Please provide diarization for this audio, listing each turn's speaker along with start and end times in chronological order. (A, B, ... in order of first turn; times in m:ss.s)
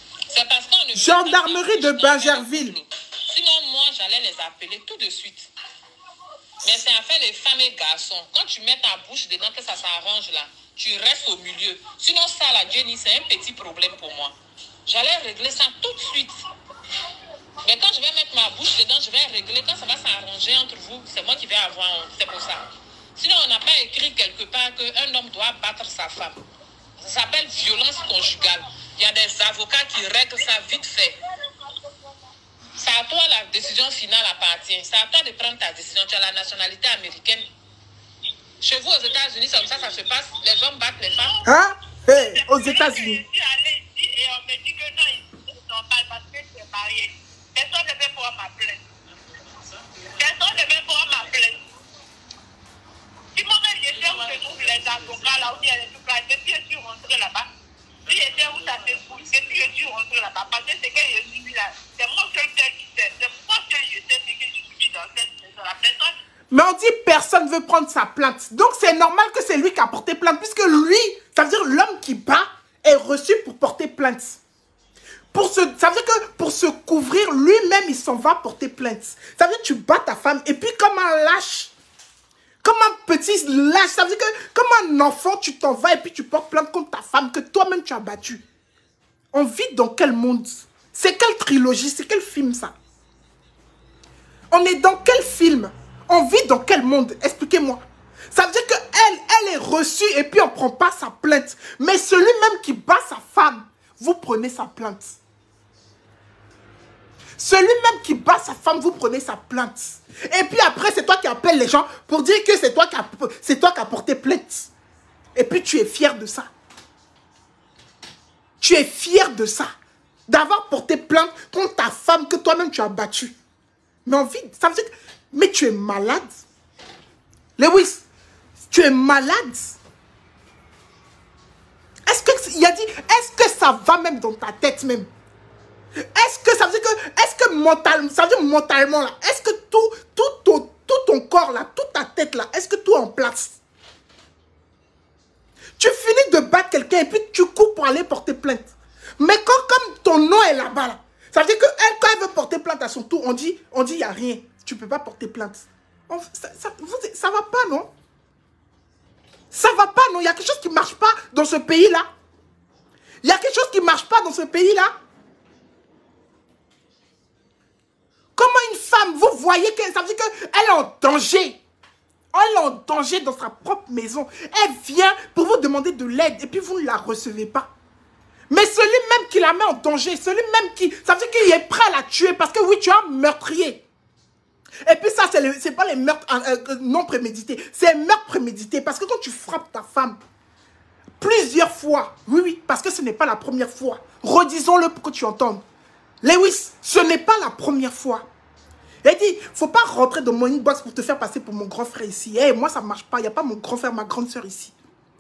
0:00.3-0:05.5 A
0:01.0-0:02.8 B
0:06.6-0:16.4 A
0:17.6-0:22.6 A
0:23.2-0:26.4 A
0:27.0-0:31.2 A
0:31.4-0:32.3 C
0:32.8-0:37.5 A
0:38.6-0:41.4 A
0:41.2-0:41.5 C
0:41.4-0:43.2 B
0:42.1-0:48.8 C
0:50.0-0:51.7 C
0:53.4-0:57.5 C
0:58.1-1:06.1 C
1:06.5-1:14.4 B
1:15.3-1:21.7 B
1:22.6-1:28.4 B
1:29.3-1:32.8 B
1:34.5-1:45.2 B
1:47.4-1:54.7 B
1:55.4-1:56.5 B
1:58.6-1:59.7 B
2:00.3-2:03.4 B
2:04.0-2:06.4 B
2:07.6-2:08.0 B
2:08.6-2:09.8 B
2:12.1-2:15.1 B
2:16.0-2:23.6 B
2:25.8-2:37.9 B
2:39.5-2:42.1 B
2:43.2-2:44.9 B
2:48.4-2:51.6 B
2:52.3-2:57.7 B
2:58.5-3:03.8 B
3:04.8-3:10.2 B
3:11.2-3:15.6 B
3:16.2-3:18.3 B
3:19.0-3:24.8 B